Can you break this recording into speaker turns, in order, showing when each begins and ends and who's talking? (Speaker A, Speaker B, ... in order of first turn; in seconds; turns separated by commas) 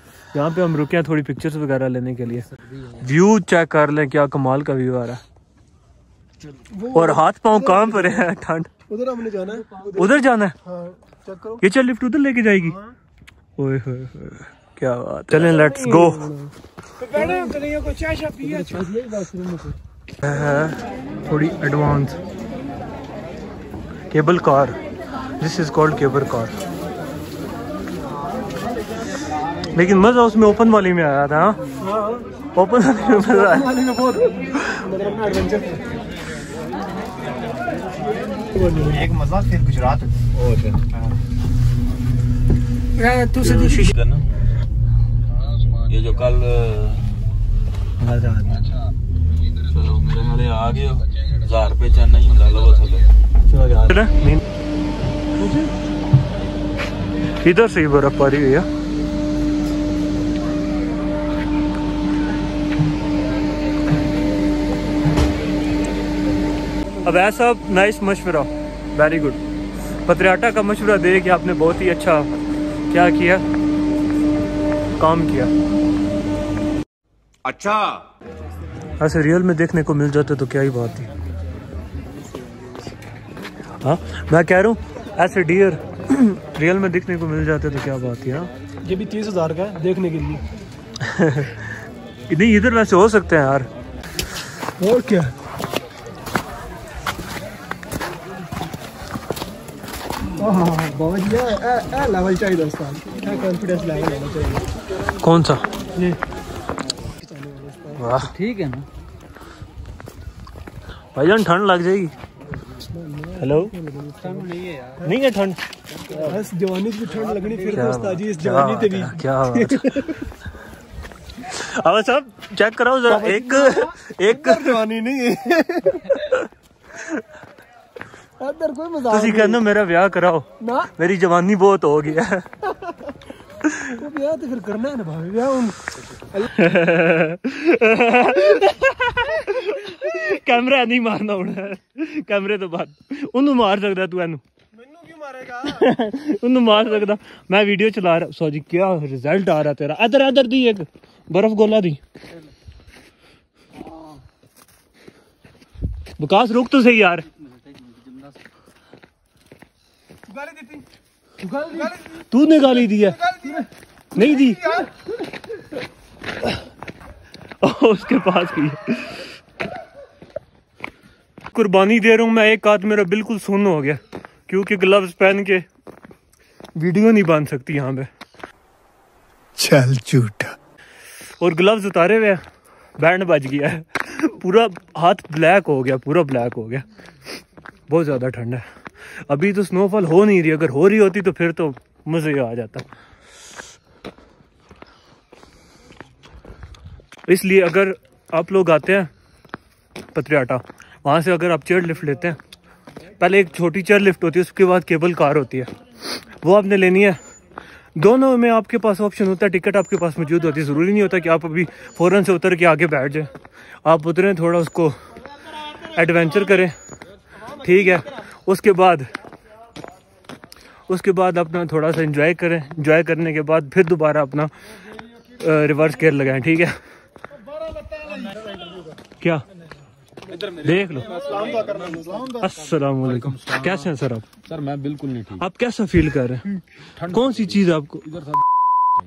Speaker A: 0.3-2.5, Speaker B: 2.4-3.0, Speaker A: 3.0-5.2, Speaker C: 6.7-8.3, Speaker A: 6.9-8.7, Speaker C: 8.9-11.6, Speaker A: 10.0-10.6, Speaker A: 11.6-12.8, Speaker C: 12.5-13.0, Speaker A: 13.6-16.3, Speaker C: 15.3-19.3, Speaker B: 17.2-17.5, Speaker B: 18.4-19.8, Speaker A: 20.2-22.2, Speaker A: 24.1-24.8, Speaker A: 25.4-26.6, Speaker A: 29.7-31.6, Speaker C: 31.8-32.3, Speaker A: 32.6-33.7, Speaker C: 33.0-35.9, Speaker C: 38.5-39.1, Speaker D: 38.7-40.2, Speaker E: 40.3-40.9, Speaker E: 43.4-44.3, Speaker A: 43.6-43.9, Speaker E: 45.5-47.1, Speaker D: 48.0-48.7, Speaker E: 49.6-53.1, Speaker D: 53.5-53.9, Speaker A: 53.8-54.4, Speaker C: 55.4-55.7, Speaker A: 57.4-58.7, Speaker A: 67.0-69.4, Speaker A: 70.1-72.3, Speaker A: 72.9-73.4, Speaker A: 75.0-75.5, Speaker E: 77.5-78.0, Speaker A: 79.0-81.1, Speaker A: 83.8-88.5, Speaker C: 88.8-90.4, Speaker A: 91.0-91.7, Speaker A: 92.3-93.7, Speaker C: 94.8-95.3, Speaker C: 100.4-104.7, Speaker A: 105.2-105.7, Speaker C: 107.2-108.1, Speaker A: 108.0-108.3, Speaker B: 108.2-108.9, Speaker A: 111.2-112.1, Speaker C: 112.8-115.2, Speaker A: 113.4-113.7, Speaker B: 114.3-115.0, Speaker A: 115.0-115.6, Speaker C: 116.1-120.3, Speaker A: 117.7-120.0, Speaker A: 121.4-124.8, Speaker C: 123.1-126.3, Speaker C: 128.4-129.6, Speaker A: 129.1-132.5, Speaker C: 130.6-130.9, Speaker C: 132.7-133.2, Speaker A: 133.7-133.9, Speaker C: 133.9-136.7, Speaker A: 136.6-144.4, Speaker C: 144.7-145.9, Speaker A: 145.7-152.0, Speaker A: 156.2-157.3, Speaker C: 160.3-160.8, Speaker B: 161.4-162.0, Speaker A: 162.3-163.2, Speaker A: 164.2-164.8, Speaker C: 164.2-164.9, Speaker A: 167.6-169.3, Speaker A: 171.5-175.7, Speaker A: 176.8-178.1, Speaker C: 179.6-180.5, Speaker A: 181.4-182.4, Speaker A: 183.0-186.8, Speaker A: 187.9-192.8, Speaker A: 197.3-199.1, Speaker A: 200.2-202.4, Speaker A: 203.2-205.7, Speaker A: 206.4-207.2, Speaker A: 208.0-213.3, Speaker A: 213.8-215.0, Speaker A: 215.8-216.7, Speaker A: 217.6-219.1, Speaker A: 220.9-224.5, Speaker A: 225.4-226.8, Speaker E: 230.3-230.6, Speaker A: 230.6-231.2, Speaker C: 231.0-232.5, Speaker E: 231.2-232.0, Speaker A: 232.4-234.3, Speaker E: 233.0-233.9, Speaker E: 234.4-235.4, Speaker A: 235.4-238.1, Speaker E: 237.0-238.4